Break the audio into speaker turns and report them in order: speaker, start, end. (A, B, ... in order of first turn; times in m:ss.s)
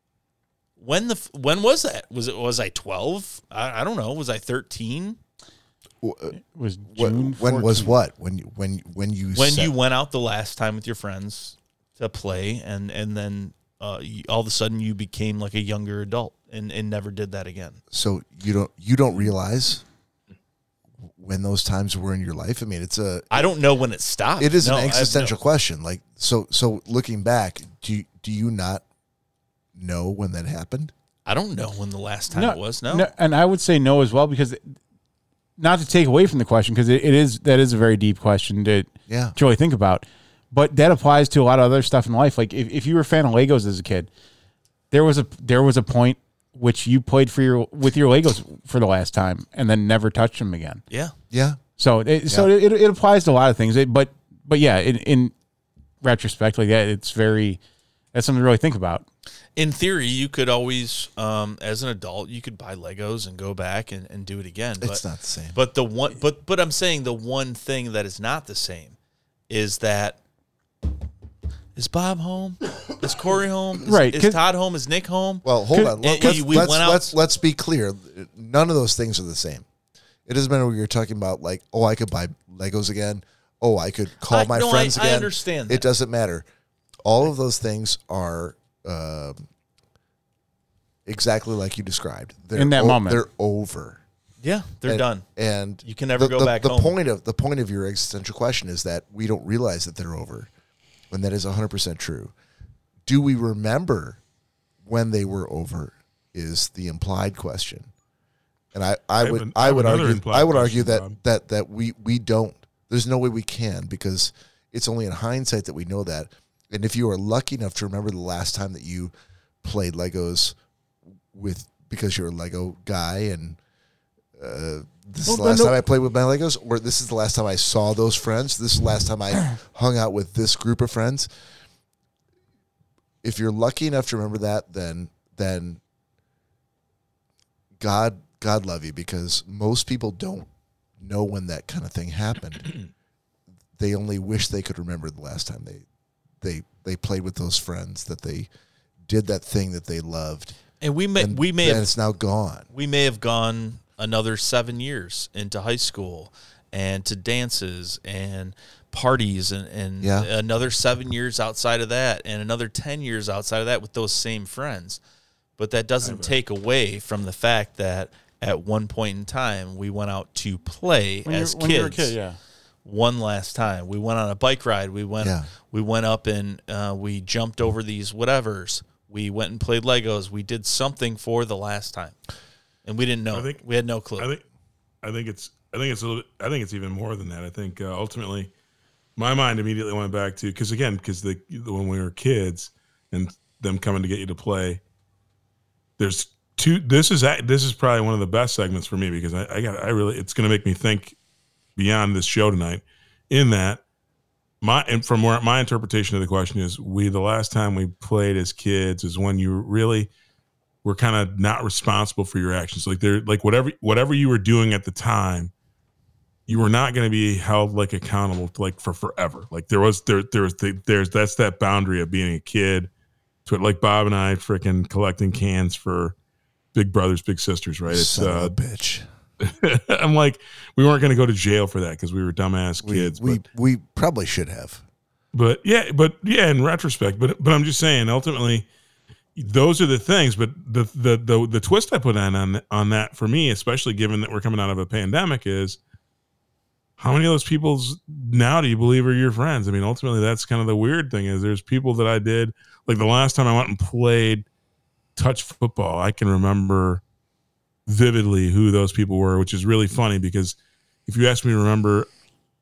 0:00.8-0:05.2 A
0:06.0-0:06.4 B
0:06.3-0:08.0 C
0:06.9-0:09.7 B
0:09.3-0:17.8 A
0:17.9-0:19.8 B
0:21.1-0:23.5 B
0:23.3-0:25.4 A
0:24.4-0:28.8 B
0:29.8-0:30.9 B
0:31.3-0:33.1 A
0:32.3-0:34.8 C
0:35.6-0:44.1 C
0:39.1-0:39.3 B
0:44.9-0:50.8 C
0:51.3-0:51.6 B
0:51.8-0:55.3 C
0:56.0-0:57.6 C
0:58.1-0:59.1 C
0:59.6-1:05.0 A
1:04.8-1:05.6 B
1:05.5-1:09.0 A
1:09.5-1:10.2 A
1:11.8-1:15.4 A
1:13.8-1:14.4 C
1:15.4-1:19.6 B
1:15.7-1:16.7 C
1:16.0-1:17.2 A
1:20.3-1:26.5 B
1:24.3-1:25.8 A
1:27.0-1:29.5 B
1:31.1-1:34.0 B
1:32.5-1:33.2 C
1:34.4-1:35.3 A
1:34.9-1:40.5 B
1:35.8-1:36.9 A
1:41.1-1:42.3 B
1:43.1-1:44.2 B
1:44.8-1:47.9 B
1:48.7-1:59.1 B
1:49.2-1:51.2 D
1:59.6-2:00.6 B
2:01.3-2:03.6 B
2:04.4-2:11.3 B
2:05.2-2:05.8 C
2:13.2-2:15.8 B
2:17.8-2:20.5 B
2:21.0-2:22.8 B
2:23.8-2:25.8 B
2:26.4-2:28.5 B
2:29.1-2:30.6 B
2:30.8-2:31.9 A
2:31.2-2:32.7 B
2:32.7-2:45.0 A
2:40.0-2:40.3 B
2:45.6-2:52.2 A
2:46.0-2:46.4 D
2:51.2-2:52.4 C
2:52.8-3:02.2 A
2:55.2-2:55.5 B
3:02.8-3:04.3 A
3:03.3-3:03.6 D
3:04.2-3:04.4 D
3:05.0-3:08.5 D
3:09.2-3:14.8 D
3:16.0-3:21.2 D
3:21.8-3:23.8 D
3:24.6-3:30.1 D
3:30.8-3:35.5 D
3:36.5-3:42.9 D
3:43.5-3:46.2 D
3:46.7-3:48.6 D
3:47.9-3:49.0 B
3:49.4-3:53.4 D
3:52.8-3:54.8 B
3:55.3-3:58.7 D
3:59.4-4:05.8 D
4:07.0-4:14.5 D
4:15.2-4:17.0 D
4:17.9-4:22.1 D